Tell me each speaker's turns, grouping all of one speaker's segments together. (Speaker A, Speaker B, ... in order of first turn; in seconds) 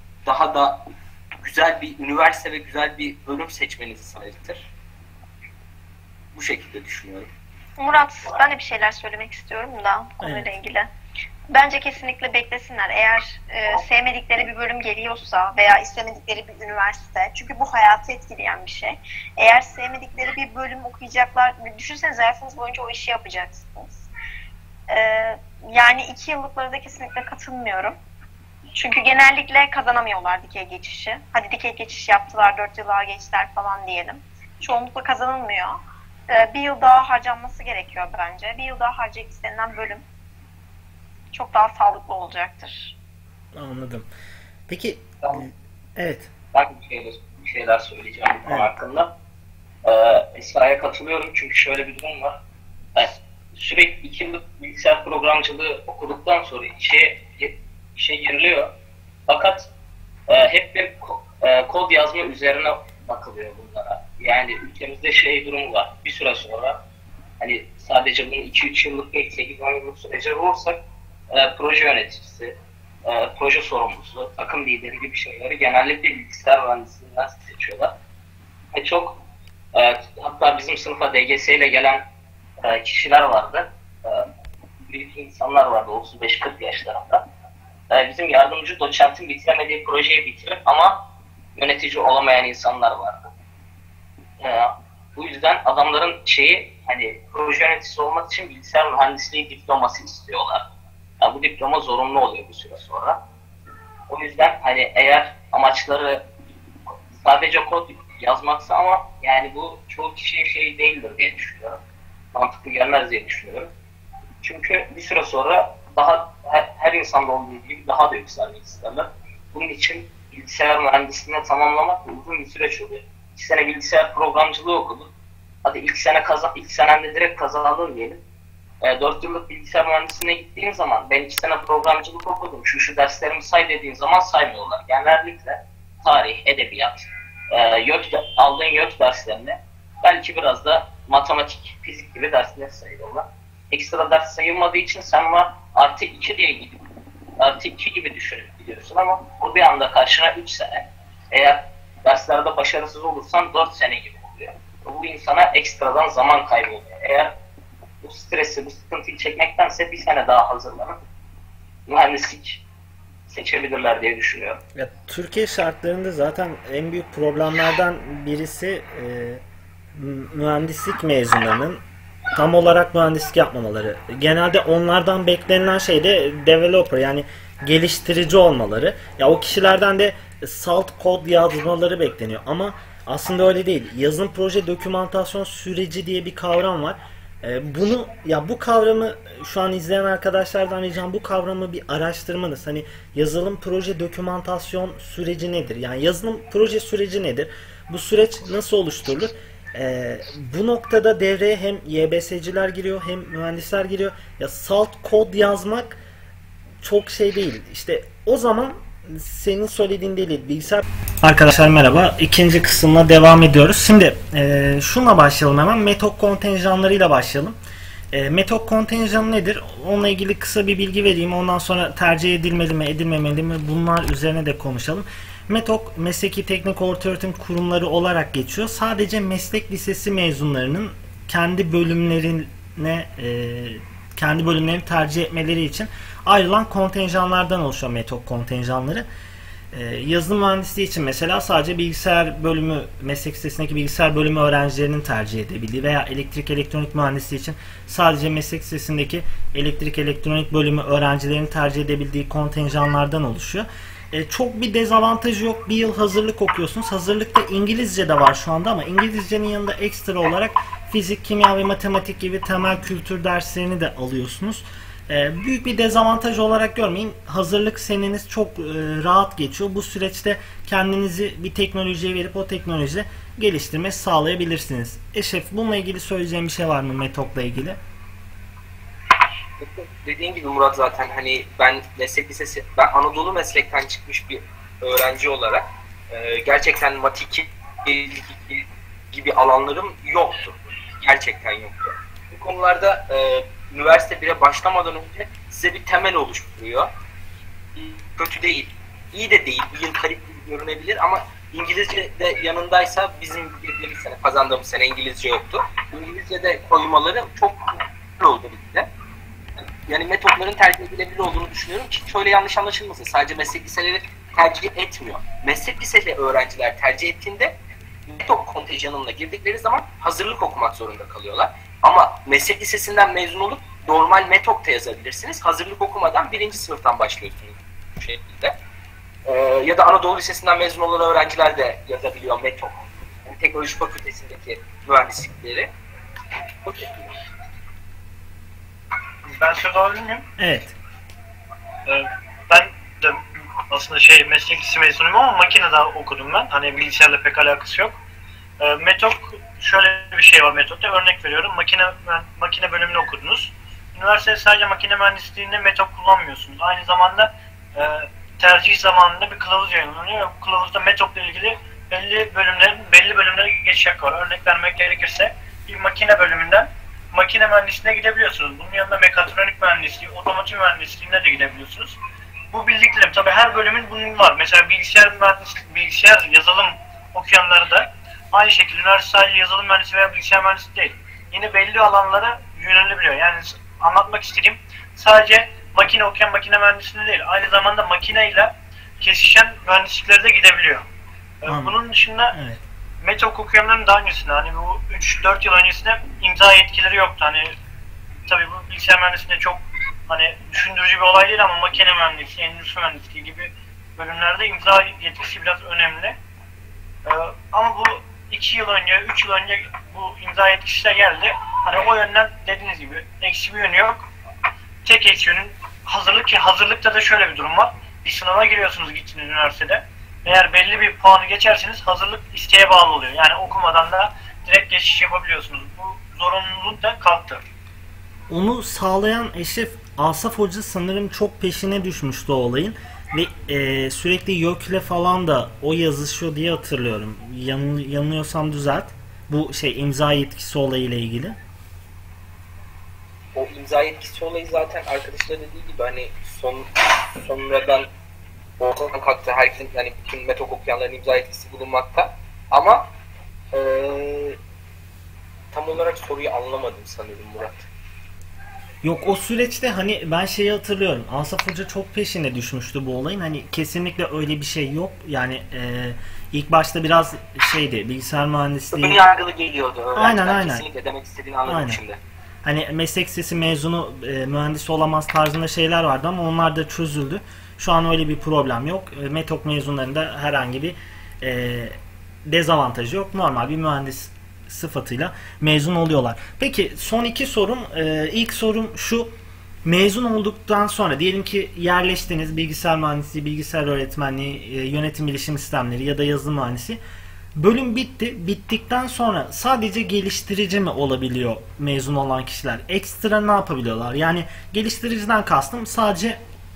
Speaker A: 0.2-4.7, 6.3-7.3, 279.6-296.9, 297.8-308.9, 309.9-317.6, 318.1-328.6, 329.2-335.7, 336.6-337.1, 443.3-447.9, 448.6-452.9, 453.5-454.4, 455.5-457.7, 468.7-472.0
Speaker B: 7.8-10.9, 11.5-24.1, 24.9-28.0, 28.8-35.8, 36.3-40.0, 41.3-42.9
Speaker C: 10.2-10.5, 43.5-44.1, 44.7-46.3, 48.5-48.7, 164.8-169.4, 169.9-171.8, 172.3-206.0, 206.8-217.6, 218.1-239.1, 239.7-277.8, 340.4-340.8, 391.5-391.8, 392.3-392.6, 428.3-441.4, 458.8-469.0, 469.9-470.6, 471.5-471.8, 472.4-489.1, 489.6-496.8, 497.4-506.2
Speaker D: 46.5-49.1, 49.8-52.4, 53.0-58.7, 59.3-59.7, 60.3-66.8, 67.4-78.0, 78.7-79.2, 79.7-82.1, 82.6-84.3, 84.8-87.3, 87.9-93.3, 94.4-100.7, 101.2-103.2, 104.1-106.2, 107.2-111.8, 112.3-113.7, 114.4-125.1, 125.6-128.2, 128.8-146.8, 147.4-157.4, 158.0-161.0, 161.9-162.6, 163.3-164.6
Speaker E: 339.3-340.3, 341.9-348.0, 348.6-372.0, 372.5-390.9, 391.4-392.4, 393.0-397.6, 398.3-406.2, 407.1-414.1, 414.8-427.4